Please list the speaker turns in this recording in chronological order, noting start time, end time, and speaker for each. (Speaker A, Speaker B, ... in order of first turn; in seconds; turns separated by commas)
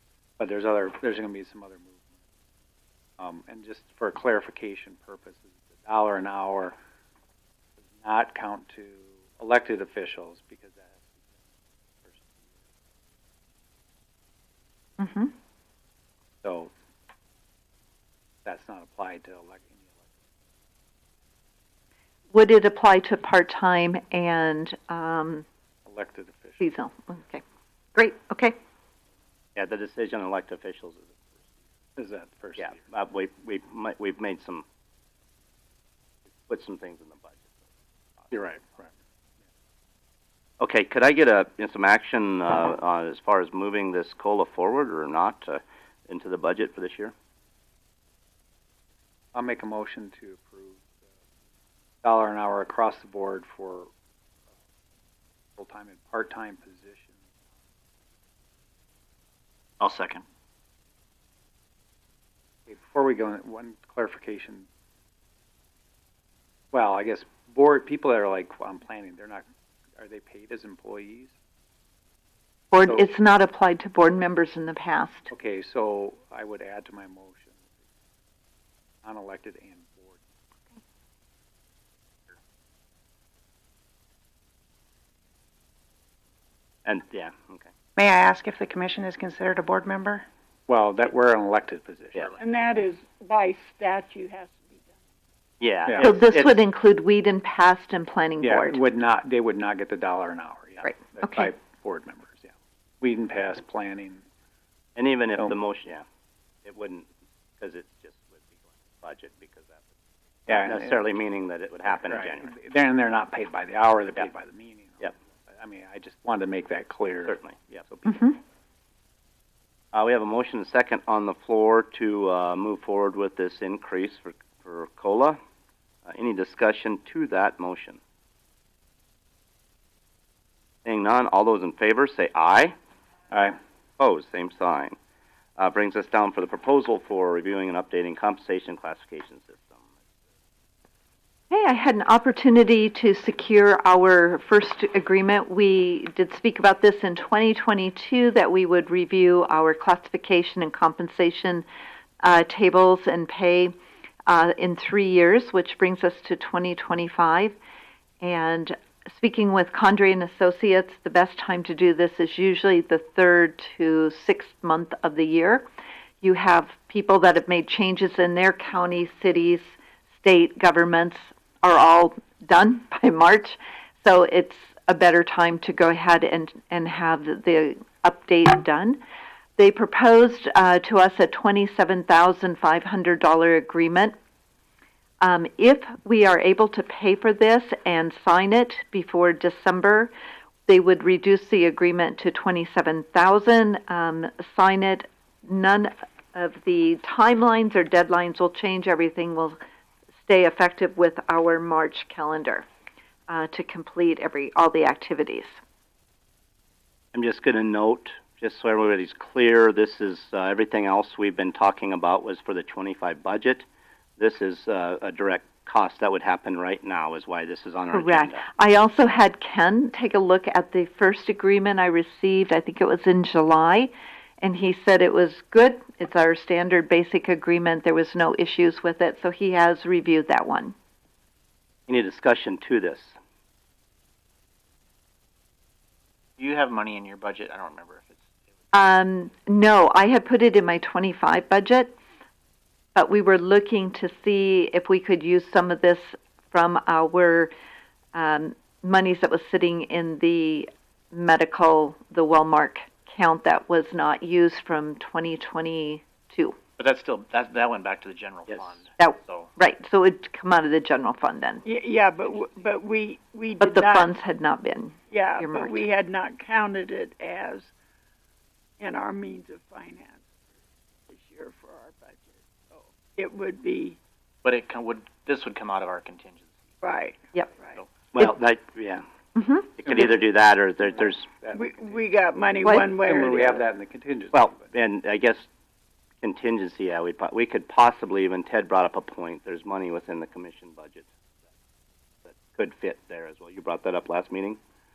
Speaker A: 0.4-2.2, Speaker A: 3.2-6.8, Speaker A: 8.0-11.5, Speaker A: 12.0-12.7, Speaker B: 15.0-15.3, Speaker A: 16.4-16.7, Speaker A: 18.4-20.2, Speaker B: 22.3-25.4, Speaker A: 25.9-26.7, Speaker B: 26.6-27.4, Speaker B: 27.9-28.5, Speaker C: 29.6-31.3, Speaker A: 32.0-32.8, Speaker C: 32.6-34.6, Speaker C: 36.5-37.5, Speaker A: 38.3-38.9, Speaker C: 40.6-47.1, Speaker A: 49.3-51.0, Speaker A: 52.0-53.9, Speaker A: 55.6-57.3, Speaker D: 59.8-60.2, Speaker A: 62.7-64.7, Speaker A: 66.7-69.5, Speaker A: 70.0-71.3, Speaker B: 72.7-75.3, Speaker A: 75.3-77.6, Speaker A: 79.0-80.3, Speaker C: 86.8-87.7, Speaker E: 88.0-90.3, Speaker A: 90.7-92.3, Speaker F: 92.4-95.0, Speaker C: 95.6-96.6, Speaker B: 96.0-98.8, Speaker A: 98.4-104.2, Speaker B: 100.8-101.5, Speaker C: 105.0-106.0, Speaker C: 106.6-107.1, Speaker C: 107.6-109.9, Speaker A: 110.5-111.0, Speaker C: 110.5-112.5, Speaker A: 112.1-117.4, Speaker C: 117.2-118.1, Speaker B: 118.1-118.4, Speaker C: 119.9-125.4, Speaker C: 126.1-128.0, Speaker C: 130.8-132.8, Speaker A: 133.3-133.6, Speaker C: 134.0-135.0, Speaker C: 135.6-139.8, Speaker B: 141.5-151.7, Speaker B: 152.2-153.7, Speaker B: 154.3-157.6, Speaker B: 158.2-165.7, Speaker B: 166.2-179.0, Speaker B: 179.6-184.1, Speaker B: 185.2-190.1, Speaker B: 190.7-199.6, Speaker B: 200.2-202.7, Speaker B: 203.3-205.5, Speaker C: 207.1-213.7, Speaker C: 214.2-218.5, Speaker B: 217.9-223.9, Speaker B: 224.4-230.8, Speaker C: 231.9-233.2, Speaker D: 236.4-238.2, Speaker B: 238.7-241.9, Speaker B: 242.9-247.5, Speaker B: 248.2-256.6, Speaker D: 256.8-259.5, Speaker B: 259.0-261.6, Speaker F: 261.6-264.1, Speaker B: 263.6-265.8, Speaker F: 265.1-267.7, Speaker F: 268.8-270.4, Speaker F: 271.1-274.0, Speaker D: 274.4-276.5, Speaker F: 276.8-277.2, Speaker C: 278.1-279.1, Speaker B: 279.4-280.0, Speaker C: 279.8-281.3, Speaker A: 280.9-282.0, Speaker F: 281.5-283.6, Speaker A: 283.0-284.7, Speaker C: 284.3-285.5, Speaker C: 286.2-291.1, Speaker C: 292.3-294.6